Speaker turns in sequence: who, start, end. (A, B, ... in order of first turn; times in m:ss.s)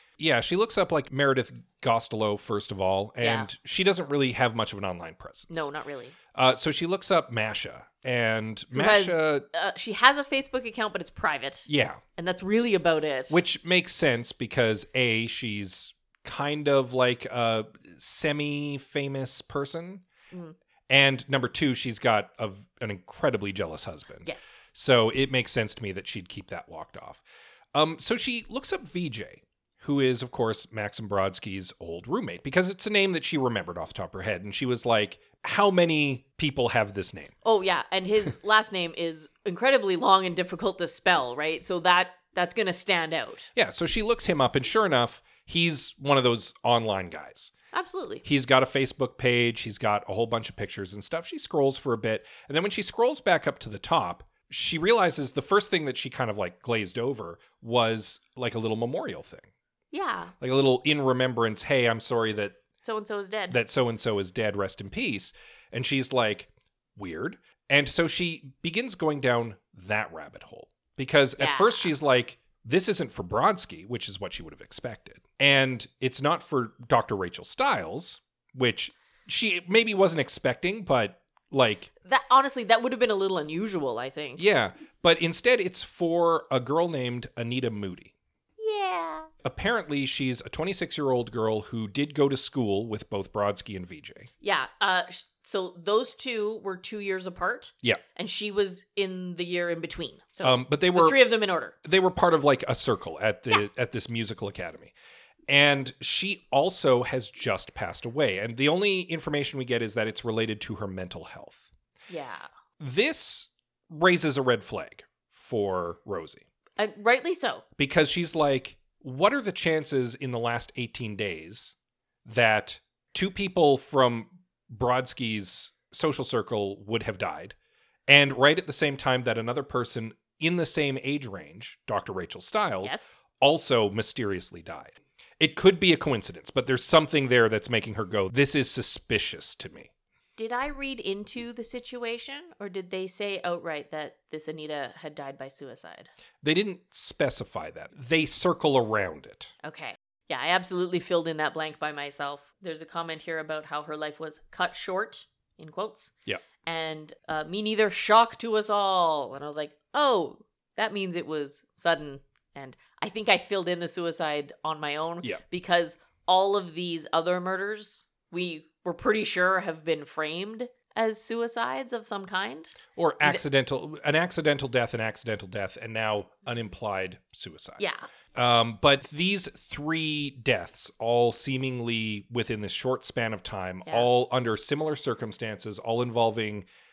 0:00.2-0:05.7 A
0:03.2-0:03.5 B
0:05.5-0:06.2 B
0:06.3-0:09.4 A
0:08.7-0:13.4 B
0:11.7-0:12.0 A
0:13.3-0:20.0 A
0:20.9-0:27.2 A
0:24.3-0:24.6 B
0:27.7-0:37.3 A
0:37.4-0:43.5 B
0:43.6-0:47.5 A
0:47.7-0:48.2 B
0:48.2-0:59.5 A
0:59.9-1:00.3 B
1:00.4-1:02.6 A
1:02.8-1:03.6 B
1:03.5-1:21.9 A
1:11.4-1:11.9 B
1:22.1-1:24.4 B
1:24.4-1:28.1 A
1:28.6-1:29.3 B
1:29.4-1:34.3 A
1:34.4-1:41.8 B
1:40.4-1:41.2 A
1:41.8-1:44.9 A
1:45.5-1:51.7 A
1:52.1-1:52.5 B
1:52.8-1:56.4 A
1:56.8-1:57.6 B
1:57.8-2:01.7 A
2:02.2-2:07.6 A
2:08.1-2:19.9 A
2:12.8-2:13.1 B
2:20.4-2:26.1 B
2:26.4-2:29.5 A
2:29.6-2:36.1 B
2:36.6-2:53.4 B
2:53.0-2:57.8 A
2:57.8-2:58.0 B
2:58.4-3:06.6 A